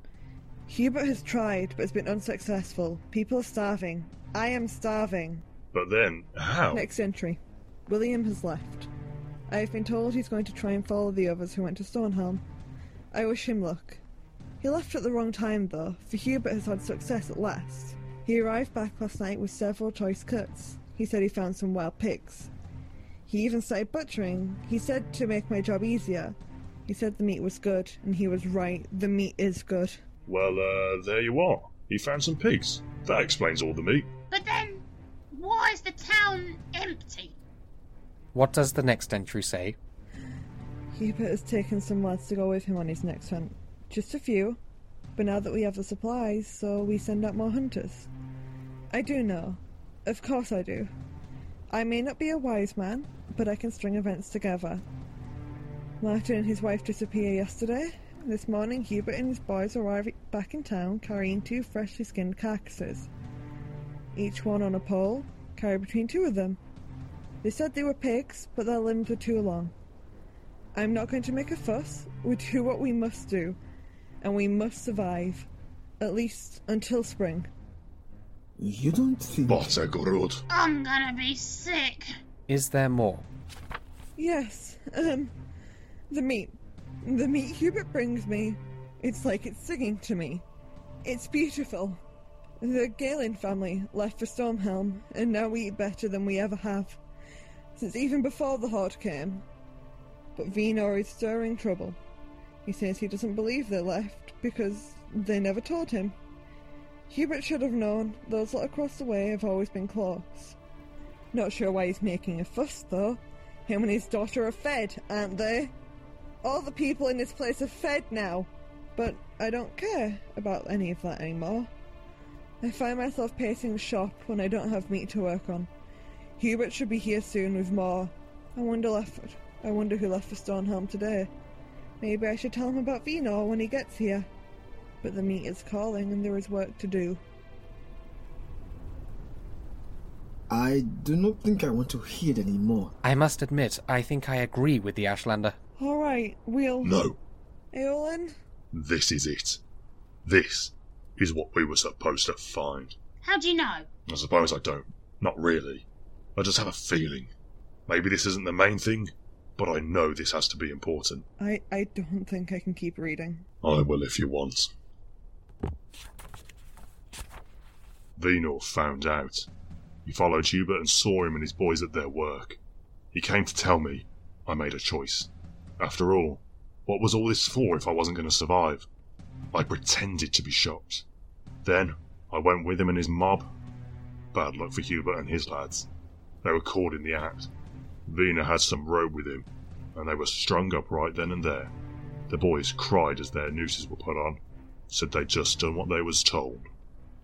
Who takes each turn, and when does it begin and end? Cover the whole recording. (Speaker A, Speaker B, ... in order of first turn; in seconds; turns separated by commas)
Speaker A: 0.7-5.4, Speaker B: 5.7-6.9, Speaker A: 6.7-8.9, Speaker A: 9.5-12.4, Speaker A: 13.1-14.0, Speaker A: 14.6-22.5, Speaker A: 23.3-30.0, Speaker B: 30.3-34.1, Speaker C: 34.3-37.4, Speaker D: 38.3-39.8, Speaker A: 40.9-44.6, Speaker A: 45.2-48.1, Speaker A: 48.9-50.9, Speaker A: 51.7-54.8, Speaker A: 56.0-63.1, Speaker A: 64.2-66.6, Speaker A: 67.4-69.7, Speaker A: 70.8-73.6, Speaker A: 74.2-75.5, Speaker A: 76.0-77.5, Speaker E: 78.6-79.8, Speaker B: 79.5-80.4, Speaker C: 80.5-82.1, Speaker D: 82.5-83.3, Speaker A: 84.2-85.3, Speaker A: 86.1-90.5, Speaker A: 91.0-92.0, Speaker A: 92.6-97.0, Speaker A: 97.8-99.4, Speaker A: 100.4-102.0, Speaker A: 102.7-106.2, Speaker A: 107.1-110.6, Speaker A: 111.3-115.7, Speaker A: 116.4-121.7, Speaker A: 122.6-125.7, Speaker A: 126.4-131.3, Speaker A: 132.0-134.3, Speaker A: 135.0-137.2, Speaker E: 140.5-142.9, Speaker D: 143.0-145.6, Speaker A: 145.8-147.0, Speaker B: 146.8-147.2, Speaker A: 147.7-148.3, Speaker B: 148.7-149.6, Speaker B: 150.2-152.9, Speaker C: 153.2-153.9, Speaker B: 154.1-157.3, Speaker B: 157.9-161.3, Speaker A: 161.4-163.4, Speaker B: 163.6-164.7, Speaker B: 168.2-169.5, Speaker B: 170.1-172.6, Speaker B: 173.1-178.9, Speaker B: 179.5-181.0, Speaker B: 181.6-183.5, Speaker B: 184.3-185.9, Speaker B: 186.4-187.5, Speaker B: 188.1-191.7, Speaker B: 192.3-194.4, Speaker B: 194.9-196.7